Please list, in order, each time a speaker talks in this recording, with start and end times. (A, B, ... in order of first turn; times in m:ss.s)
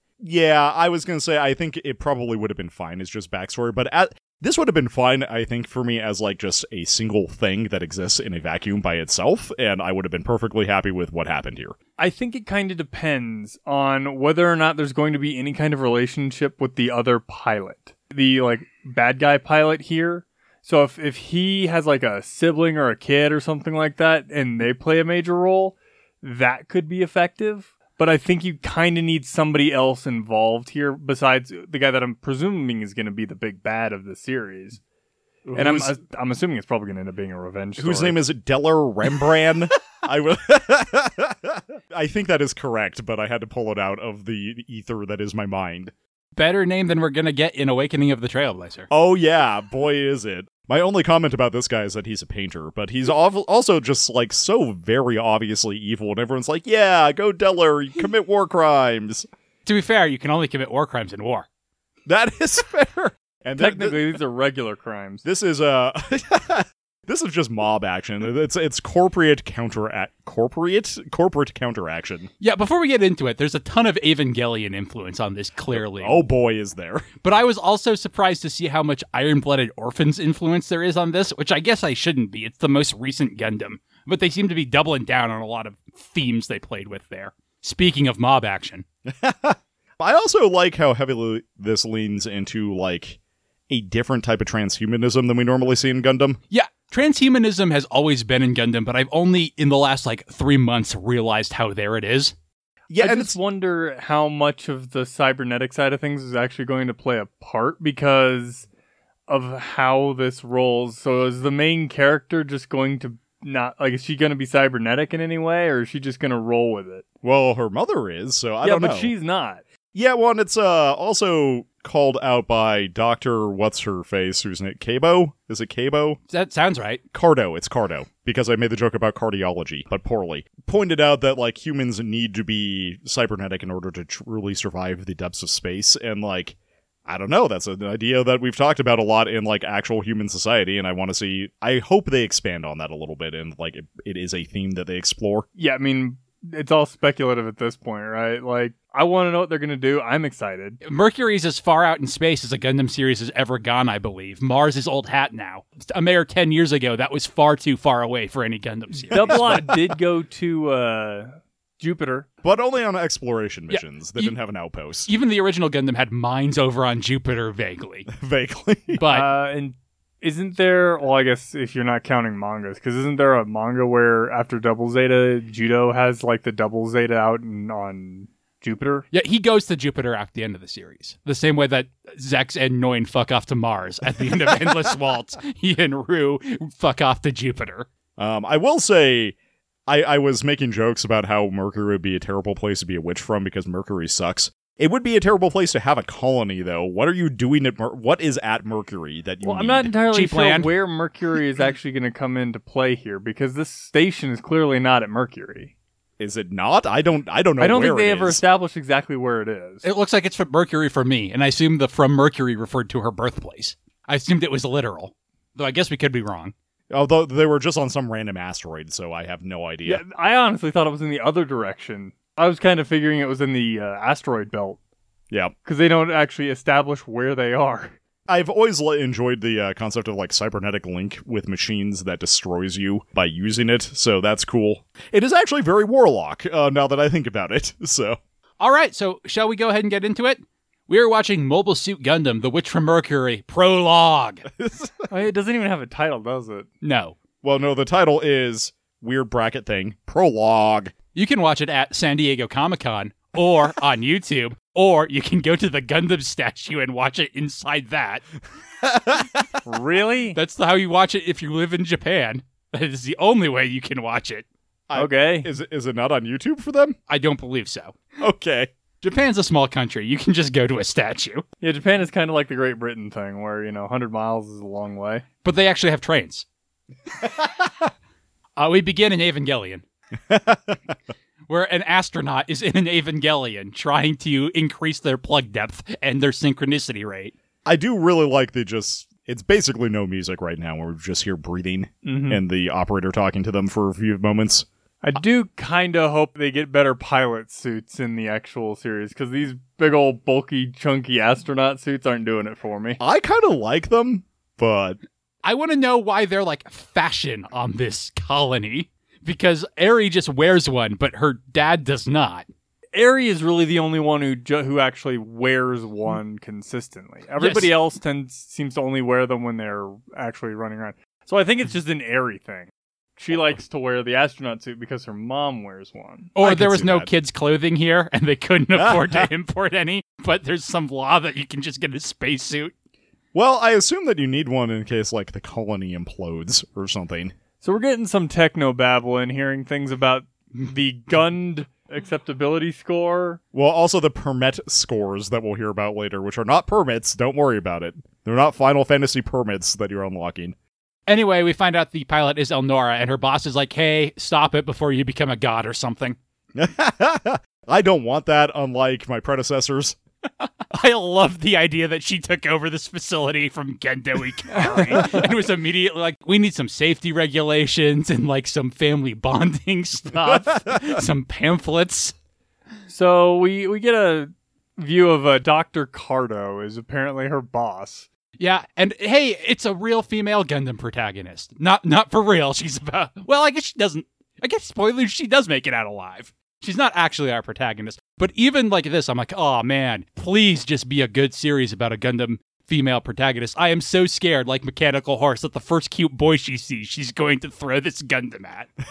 0:00.2-0:11.8 A
0:12.0-0:34.8 B
0:35.5-0:36.0 A
0:35.5-0:38.2 B
0:37.8-0:45.9 A
0:46.4-0:48.9 C
0:48.9-0:59.3 A
0:59.7-1:01.5 C
1:02.1-1:04.0 A
1:03.6-1:05.2 B
1:05.2-1:12.3 A
1:12.4-1:16.2 C
1:15.7-1:17.1 A
1:17.2-1:28.8 C
1:29.1-1:33.2 A
1:33.7-1:36.4 A
1:36.5-1:42.3 C
1:42.9-1:43.4 A
1:43.0-1:48.7 B
1:49.3-1:57.0 B
1:57.2-1:59.1 A
1:58.6-1:59.6 B
1:59.9-2:06.2 A
2:06.3-2:07.0 C
2:07.1-2:16.6 A
2:17.1-2:25.5 A
2:25.6-2:30.8 B
2:30.8-2:39.7 C
2:38.9-2:40.0 A
2:39.1-2:42.3 B
2:42.4-2:45.1 A
2:43.7-2:44.3 C
2:45.1-2:48.1 C
2:48.1-2:49.0 A
2:48.9-2:49.3 C
2:49.0-2:59.1 B
2:59.1-3:07.9 C
3:08.2-3:09.4 A
3:09.9-3:19.9 A
3:19.4-3:25.7 B
3:20.1-3:20.7 C
3:26.2-3:28.4 A
3:27.6-3:29.8 B
3:29.8-3:36.5 C
3:36.9-3:40.0 A
3:39.8-3:44.8 B
3:45.6-3:48.0 B
3:48.3-3:58.2 A
3:58.6-4:04.5 C
4:04.5-4:05.1 A
4:05.1-4:06.7 B
4:06.8-4:07.2 C
4:07.4-4:10.9 A
4:11.1-4:18.2 C
4:18.8-4:19.5 A
4:19.6-4:20.4 B
4:20.3-4:24.5 C
4:24.9-4:27.0 A
4:25.0-4:25.5 B
4:27.1-4:28.0 C
4:28.2-4:28.7 A
4:29.0-4:31.4 C
4:31.6-4:35.2 B
4:35.4-4:36.4 C
4:37.2-4:37.5 A
4:38.6-4:39.8 C
4:40.3-4:40.9 A
4:41.5-4:47.3 C
4:47.6-4:54.7 A
4:52.0-4:52.4 B
4:55.0-5:03.0 B
5:03.0-5:05.0 A
5:05.4-5:12.5 C
5:12.9-5:26.3 B
5:17.4-5:17.7 C
5:26.4-5:32.7 C
5:26.4-5:27.1 A
5:28.8-5:29.3 A
5:33.3-5:37.4 A
5:37.6-5:43.4 B
5:43.5-5:50.6 A
5:51.1-5:56.2 C
5:56.6-6:00.0 A
6:00.7-6:12.1 C
6:04.6-6:05.1 B
6:10.2-6:11.0 A
6:12.9-6:18.1 B
6:18.4-6:38.7 C